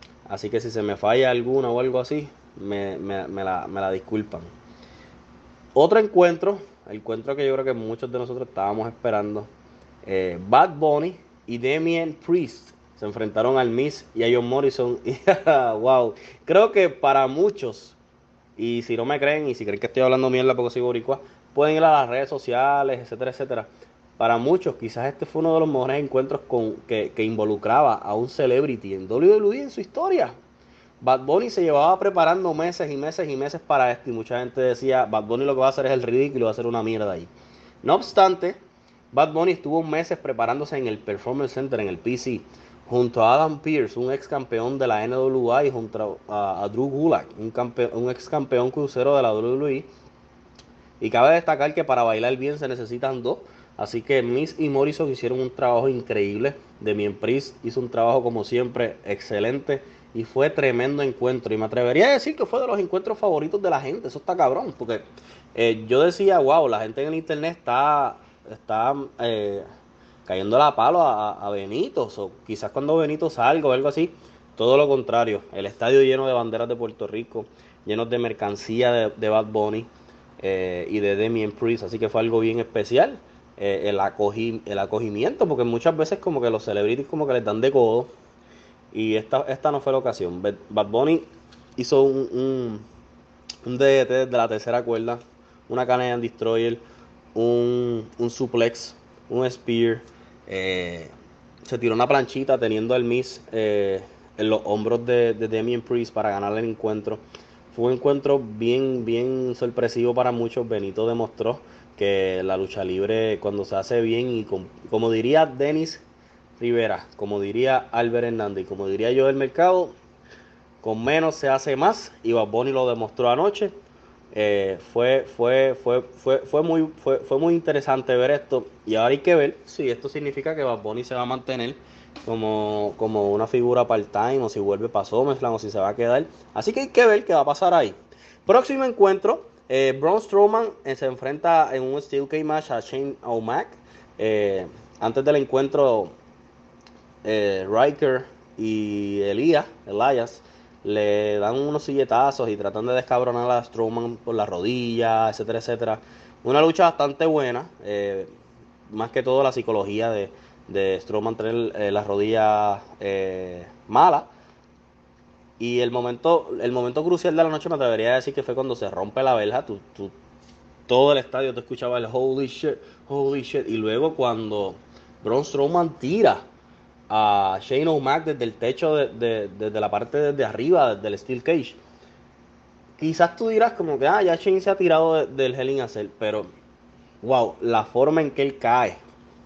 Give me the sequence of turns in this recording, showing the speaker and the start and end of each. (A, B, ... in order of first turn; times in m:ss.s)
0:00.3-0:04.5 A
0:05.8-0:09.5 A
0:10.0-0:18.0 A
0:18.6-0:30.4 A
0:31.0-0:37.3 A
0:37.8-0:38.6 A
0:39.1-0:49.9 A
0:51.0-1:09.6 A
1:10.3-1:28.1 A
1:28.9-1:32.9 A
1:33.6-1:36.8 A
1:37.4-1:41.1 A
1:41.7-1:56.0 A
1:56.6-2:00.0 A
2:00.8-2:03.7 A
2:04.3-2:26.2 A
2:27.2-2:38.3 A
2:38.9-2:44.3 A
2:45.6-2:50.2 A
2:50.9-2:56.4 A
2:57.1-3:01.8 A
3:03.0-3:06.5 A
3:07.2-3:09.0 A